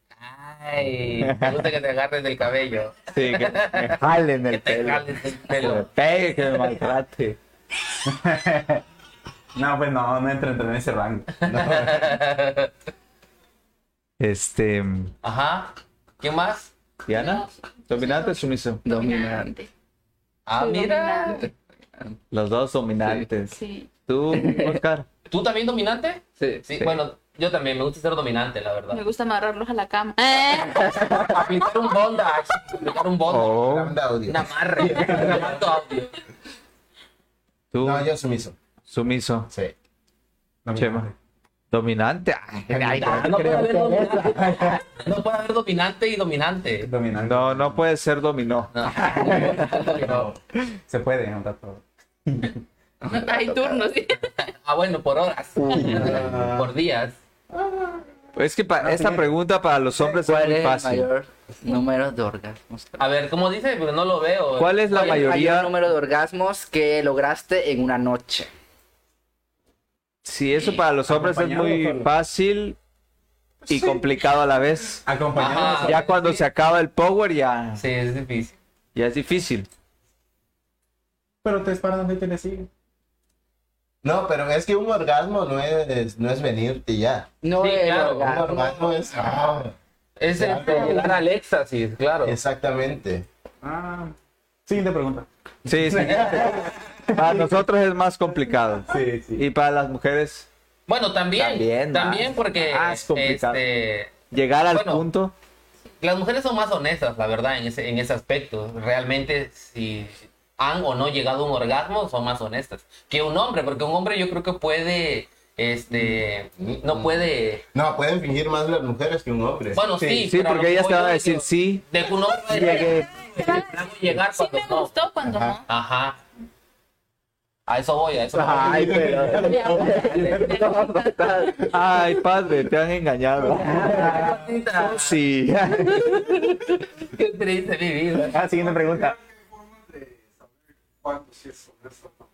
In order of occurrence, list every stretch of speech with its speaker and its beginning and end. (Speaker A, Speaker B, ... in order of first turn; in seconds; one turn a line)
Speaker A: 0.2-5.9
Speaker B: 1.2-1.7
Speaker B: 3.1-7.4
Speaker C: 8.0-8.8
Speaker C: 9.5-11.4
Speaker D: 11.4-12.2
Speaker A: 11.4-12.7
Speaker B: 14.2-15.1
Speaker A: 15.2-16.7
Speaker B: 17.1-18.8
Speaker E: 17.1-19.7
Speaker F: 18.8-19.6
Speaker A: 20.4-21.5
Speaker E: 20.5-21.5
Speaker B: 22.3-25.1
Speaker E: 23.5-23.9
Speaker F: 24.3-24.8
Speaker A: 25.3-29.0
Speaker E: 28.9-30.9
Speaker F: 30.6-31.4
Speaker A: 31.1-33.5
Speaker B: 33.3-34.0
Speaker D: 33.5-35.6
Speaker A: 34.3-36.2
Speaker C: 34.9-35.5
Speaker B: 37.7-38.1
Speaker D: 37.8-38.6
Speaker B: 38.9-39.5
Speaker C: 40.6-41.1
Speaker B: 40.8-41.1
Speaker B: 41.7-44.0
Speaker D: 42.8-43.2
Speaker A: 42.9-46.9
Speaker F: 43.2-44.6
Speaker C: 44.3-44.8
Speaker C: 46.8-47.8
Speaker B: 47.2-48.7
Speaker A: 48.7-50.3
Speaker C: 48.9-50.4
Speaker F: 49.1-50.0
Speaker C: 50.9-52.6
Speaker F: 53.0-53.9
Speaker E: 53.1-54.5
Speaker A: 54.4-57.2
Speaker C: 55.7-56.3
Speaker D: 55.7-56.7
Speaker B: 55.8-56.1
Speaker D: 57.5-58.1
Speaker B: 58.4-61.1
Speaker C: 58.8-59.2
Speaker F: 60.1-63.0
Speaker A: 63.0-65.4
Speaker B: 64.6-65.7
Speaker F: 64.9-68.5
Speaker B: 70.2-72.8
Speaker C: 71.1-72.1
Speaker B: 73.7-75.0
Speaker C: 75.0-76.0
Speaker A: 75.3-76.4
Speaker B: 75.8-77.8
Speaker A: 77.8-78.5
Speaker B: 78.9-79.7
Speaker C: 81.4-82.7
Speaker D: 84.0-87.3
Speaker F: 87.4-89.0
Speaker A: 87.6-88.3
Speaker D: 88.2-89.7
Speaker A: 90.2-92.4
Speaker D: 90.3-91.2
Speaker D: 92.2-93.2
Speaker C: 93.6-94.2
Speaker C: 94.7-97.5
Speaker B: 95.7-100.5
Speaker C: 98.9-99.4
Speaker A: 100.9-104.2
Speaker B: 101.4-103.6
Speaker B: 104.3-105.3
Speaker A: 104.7-105.0
Speaker A: 106.0-117.6
Speaker D: 116.6-119.8
Speaker A: 119.7-124.9
Speaker B: 120.1-123.1
Speaker E: 122.8-125.6
Speaker D: 125.2-125.6
Speaker A: 125.7-126.2
Speaker A: 127.7-129.1
Speaker D: 128.3-130.5
Speaker F: 128.3-131.7
Speaker E: 129.4-131.7
Speaker B: 131.7-136.4
Speaker A: 133.7-135.2
Speaker A: 135.9-138.4
Speaker C: 138.2-139.2
Speaker C: 141.0-142.1